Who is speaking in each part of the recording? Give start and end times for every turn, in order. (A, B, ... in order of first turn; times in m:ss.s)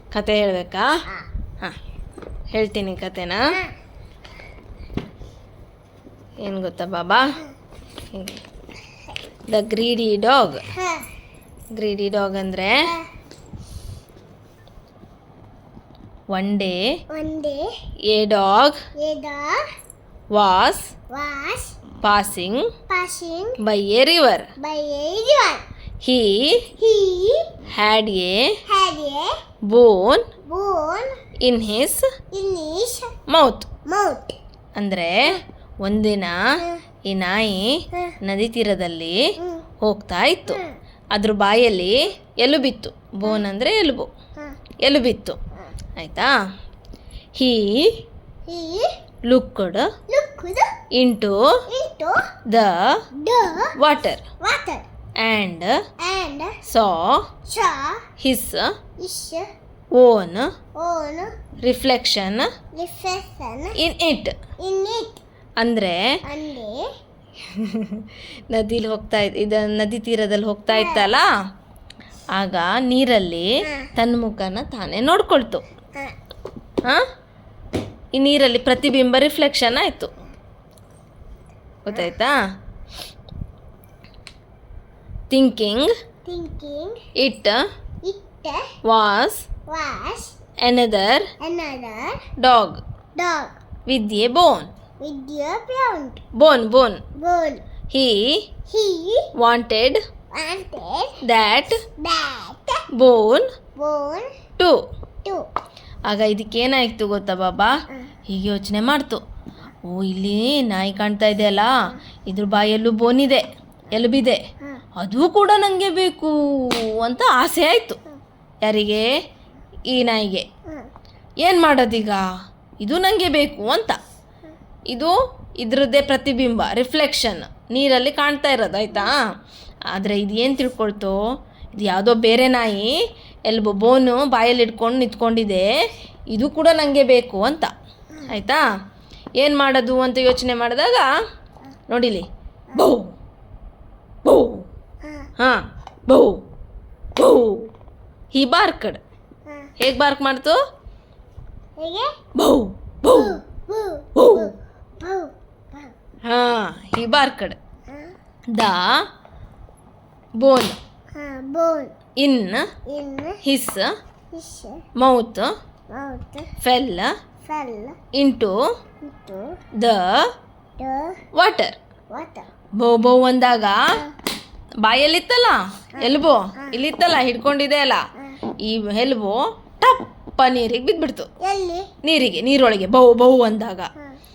0:00.1-0:00.9 A
0:02.5-0:03.4 A
0:06.4-0:07.4 A
0:08.1-0:08.4 A
0:09.5-0:10.6 A
0:10.8-0:11.1 B
0:11.7-0:12.9 A
0:16.3-0:16.8 A
0:17.1-0:17.6 B
0:18.1-0:18.8 A
0:19.0-0:19.6 B
0:20.3-0:20.9 A
0:21.1-0:21.8 B
0:22.0-0:22.7 A
0:22.9-0:23.6 B
0:23.6-0:24.5 A
0:24.6-0:25.6 B
0:26.0-0:26.7 A
0:26.8-0:27.5 B
0:27.7-0:28.5 A
0:28.7-0:29.3 B
0:29.7-0:30.3 A
0:30.5-0:31.2 B
0:31.4-0:32.1 A
0:32.3-0:33.2 B
0:33.3-0:33.7 A
0:33.9-0:34.4 B
0:34.8-0:36.4 A
0:37.1-0:39.2 A
0:39.4-0:39.7 B
0:39.8-0:40.6 A
0:40.5-0:40.7 B
0:41.1-0:44.1 A
0:44.8-0:45.4 A
0:46.0-0:46.3 A
0:47.4-0:47.9 A
0:48.5-0:48.9 B
0:49.3-0:49.9 A
0:50.1-0:50.8 B
0:50.9-0:51.4 A
0:51.7-0:52.3 B
0:52.5-0:52.8 A
0:53.2-0:53.8 B
0:53.8-0:54.2 A
0:54.4-0:54.9 B
0:55.2-0:55.8 A
0:56.0-0:56.5 B
0:56.7-0:57.2 A
0:57.5-0:58.0 B
0:58.2-0:58.7 A
0:59.0-0:59.5 B
1:00.0-1:00.5 A
1:00.8-1:01.3 B
1:01.6-1:02.5 A
1:02.8-1:03.8 B
1:03.8-1:04.4 A
1:04.6-1:05.2 B
1:05.6-1:06.0 A
1:06.2-1:06.8 B
1:07.4-1:11.3 A
1:10.7-1:11.1 B
1:12.3-1:15.6 A
1:13.6-1:13.9 B
1:18.2-1:20.1 A
1:21.8-1:22.4 A
1:25.3-1:25.9 A
1:26.2-1:27.0 B
1:27.2-1:27.6 A
1:28.0-1:28.7 B
1:28.8-1:29.4 A
1:29.7-1:30.4 B
1:30.6-1:31.3 A
1:31.4-1:32.2 B
1:32.4-1:32.8 A
1:33.2-1:33.6 B
1:33.9-1:34.7 A
1:35.0-1:36.2 B
1:36.4-1:37.0 A
1:37.2-1:37.6 B
1:37.9-1:38.3 A
1:38.7-1:39.3 B
1:39.4-1:40.0 A
1:40.3-1:41.2 B
1:41.2-1:41.8 A
1:42.0-1:42.8 B
1:42.9-1:43.4 A
1:43.8-1:44.3 B
1:46.1-1:47.7 A
1:48.3-1:49.2 A
1:49.8-1:51.7 A
1:52.3-1:54.4 A
1:55.0-1:58.0 A
1:58.6-1:59.1 A
1:59.9-2:00.5 A
2:01.4-2:02.2 A
2:02.8-2:04.0 A
2:04.9-2:09.2 A
2:09.9-2:11.2 A
2:11.8-2:12.9 A
2:13.5-2:15.7 A
2:16.3-2:17.7 A
2:18.3-2:18.6 A
2:19.4-2:21.1 A
2:21.9-2:23.1 A
2:24.2-2:24.6 A
2:25.4-2:26.4 A
2:27.2-2:27.7 A
2:28.3-2:29.0 A
2:29.8-2:30.6 A
2:31.8-2:32.1 B
2:32.4-2:33.4 A
2:33.1-2:35.9 B
2:34.2-2:34.5 A
2:36.3-2:37.6 A
2:38.5-2:39.0 A
2:40.4-2:40.8 A
2:41.2-2:42.0 B
2:42.2-2:42.7 A
2:42.9-2:43.4 B
2:43.4-2:43.9 A
2:44.3-2:44.8 B
2:45.0-2:45.5 A
2:45.9-2:46.5 B
2:46.6-2:47.1 A
2:47.4-2:48.0 B
2:48.1-2:48.6 A
2:49.0-2:49.6 B
2:49.8-2:50.3 A
2:50.8-2:51.2 B
2:51.3-2:51.8 A
2:52.1-2:52.5 B
2:52.8-2:53.8 A
2:54.8-2:58.0 A
2:56.0-2:56.7 B
2:58.6-3:01.3 A
3:01.4-3:01.9 B
3:02.0-3:03.9 A